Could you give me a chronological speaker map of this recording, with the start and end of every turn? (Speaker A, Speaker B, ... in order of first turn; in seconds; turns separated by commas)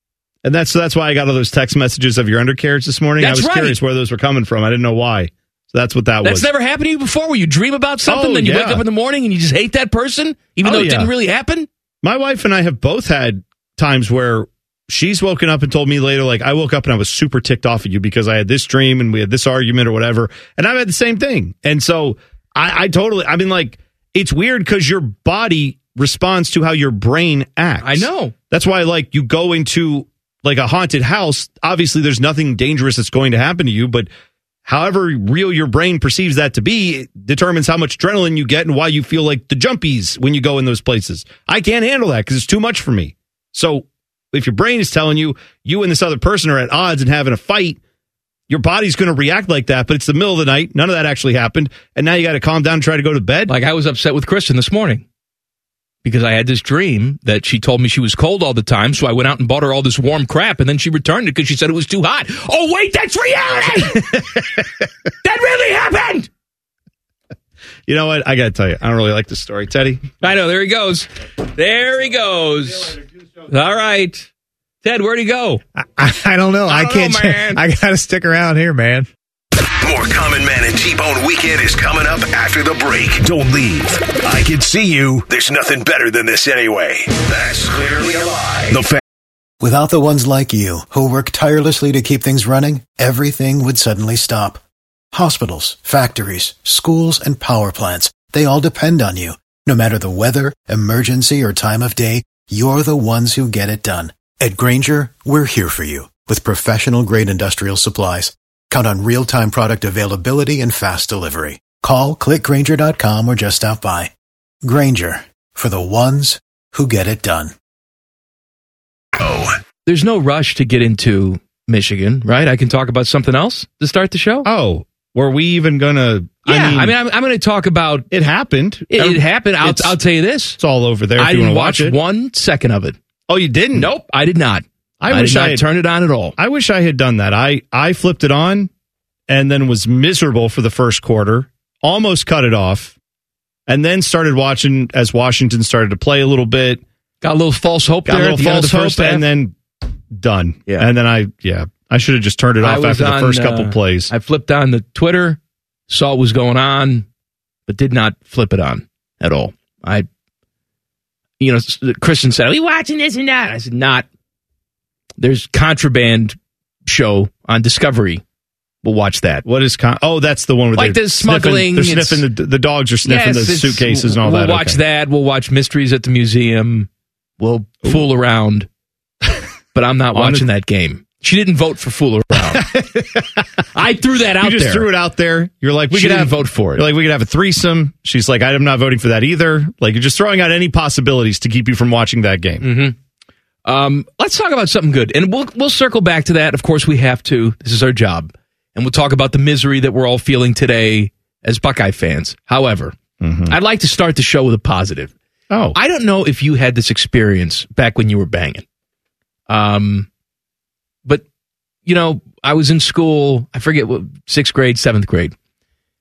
Speaker A: 0.4-6.5, Speaker B: 3.2-3.8, Speaker B: 6.2-11.7, Speaker A: 8.1-8.8, Speaker A: 10.6-11.1, Speaker A: 12.0-34.1, Speaker B: 27.8-28.3, Speaker A: 34.6-47.8, Speaker A: 48.5-53.5, Speaker B: 53.5-55.0, Speaker B: 56.0-64.2, Speaker B: 65.2-66.3, Speaker A: 67.9-70.1, Speaker B: 70.2-74.3, Speaker B: 74.8-75.6, Speaker C: 75.8-79.1, Speaker B: 76.7-77.6, Speaker D: 79.8-89.0, Speaker E: 89.6-94.6, Speaker E: 95.1-114.1, Speaker E: 114.6-117.5, Speaker D: 119.2-119.5, Speaker B: 119.9-124.5, Speaker A: 124.5-126.9, Speaker B: 126.5-128.1, Speaker A: 128.1-130.0, Speaker B: 128.9-130.6, Speaker A: 130.6-132.0, Speaker B: 131.2-133.0, Speaker A: 133.3-133.9, Speaker B: 133.7-136.4, Speaker A: 135.0-135.6, Speaker A: 136.4-138.7, Speaker A: 139.3-142.9, Speaker A: 143.7-146.8, Speaker B: 147.2-149.2, Speaker A: 148.1-149.6, Speaker A: 150.1-154.1, Speaker B: 152.6-155.4, Speaker B: 155.9-157.1, Speaker B: 157.7-160.1, Speaker B: 161.4-164.1, Speaker B: 165.2-168.2, Speaker B: 168.8-169.4, Speaker A: 169.4-174.8, Speaker B: 170.8-172.2, Speaker B: 173.0-176.9, Speaker B: 177.4-178.7, Speaker B: 179.7-182.7, Speaker A: 180.1-180.5, Speaker A: 182.5-183.2, Speaker B: 183.7-184.9, Speaker A: 184.4-192.7, Speaker B: 185.9-186.9, Speaker B: 192.6-192.9, Speaker B: 193.7-202.9, Speaker A: 203.2-203.6, Speaker B: 203.5-205.1, Speaker A: 205.5-205.8, Speaker B: 205.7-208.6, Speaker B: 209.5-210.1, Speaker B: 211.9-215.3